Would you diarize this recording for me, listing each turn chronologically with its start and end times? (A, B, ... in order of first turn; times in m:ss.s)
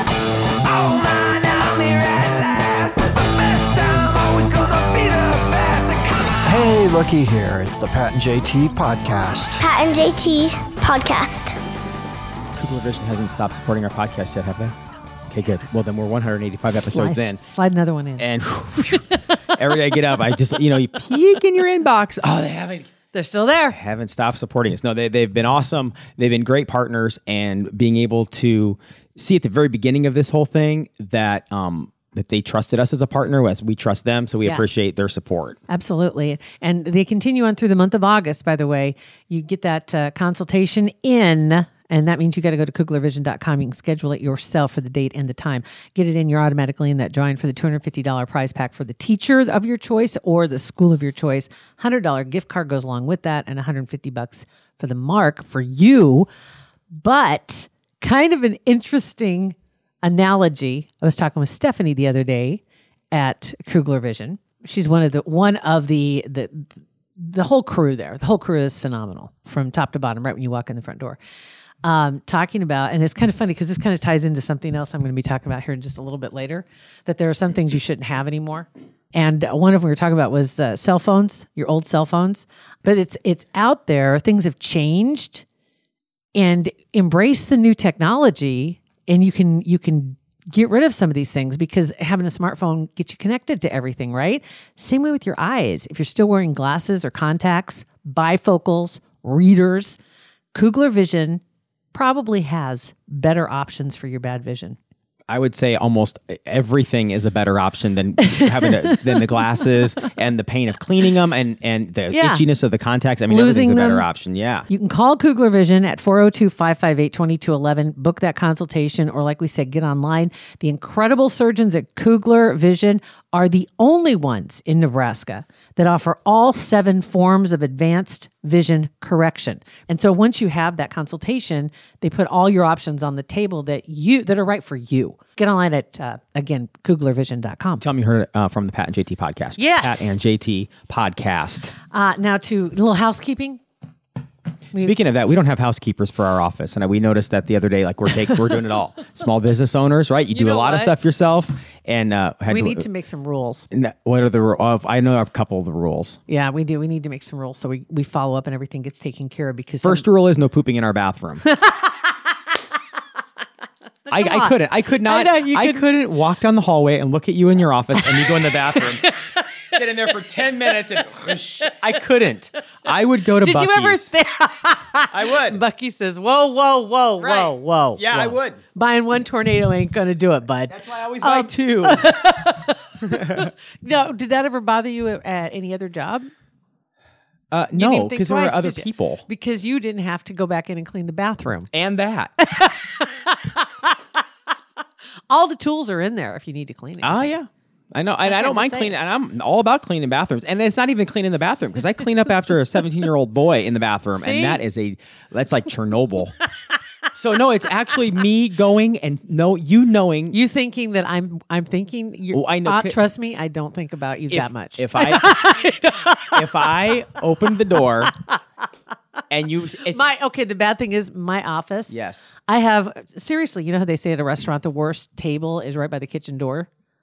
0:00.6-0:06.4 A
0:06.4-0:09.6 B
0:09.6-0:11.6 C
0:12.6-0:14.8 D
0:15.3-0:17.4 D
0:16.7-0:18.3 E
0:18.2-0:22.9 D
0:18.9-0:19.2 E
0:23.1-0:23.8 E
0:23.7-0:35.6 D
0:35.7-0:56.3 E
0:56.9-1:11.2 E
1:11.8-1:25.4 E
1:26.4-1:40.0 E
1:40.5-1:41.4 E
1:41.9-1:44.8 E
1:45.3-1:54.7 D
1:48.2-1:49.4 E
1:52.1-1:52.4 E
1:53.3-1:54.1 E
1:54.7-2:17.8 E
2:17.8-2:21.7 D
2:19.6-2:20.2 E
2:21.9-2:23.6 E
2:24.7-2:32.9 D
2:30.3-2:31.0 E
2:32.5-2:33.7 E
2:33.7-2:36.2 D
2:36.3-2:40.0 E
2:39.8-2:41.4 D
2:41.4-2:42.2 E
2:44.1-2:45.9 E
2:44.1-2:49.1 D
2:48.0-2:49.9 E
2:49.7-2:54.1 D
2:51.0-2:51.7 E
2:53.3-3:06.3 E
2:55.1-2:55.6 D
2:57.2-2:58.6 D
3:00.7-3:02.0 D
3:03.0-3:03.5 D
3:07.5-3:09.2 D
3:07.7-3:11.7 E
3:11.7-3:12.3 D
3:12.5-3:13.9 E
3:15.3-3:17.3 E
3:17.0-3:26.4 D
3:18.2-3:19.0 E
3:24.2-3:24.6 E
3:27.2-3:30.4 D
3:30.3-3:36.9 E
3:32.3-3:33.0 D
3:34.3-3:35.6 D
3:36.1-3:38.1 D
3:39.3-3:40.0 D
3:39.9-3:46.7 E
3:41.9-3:42.3 D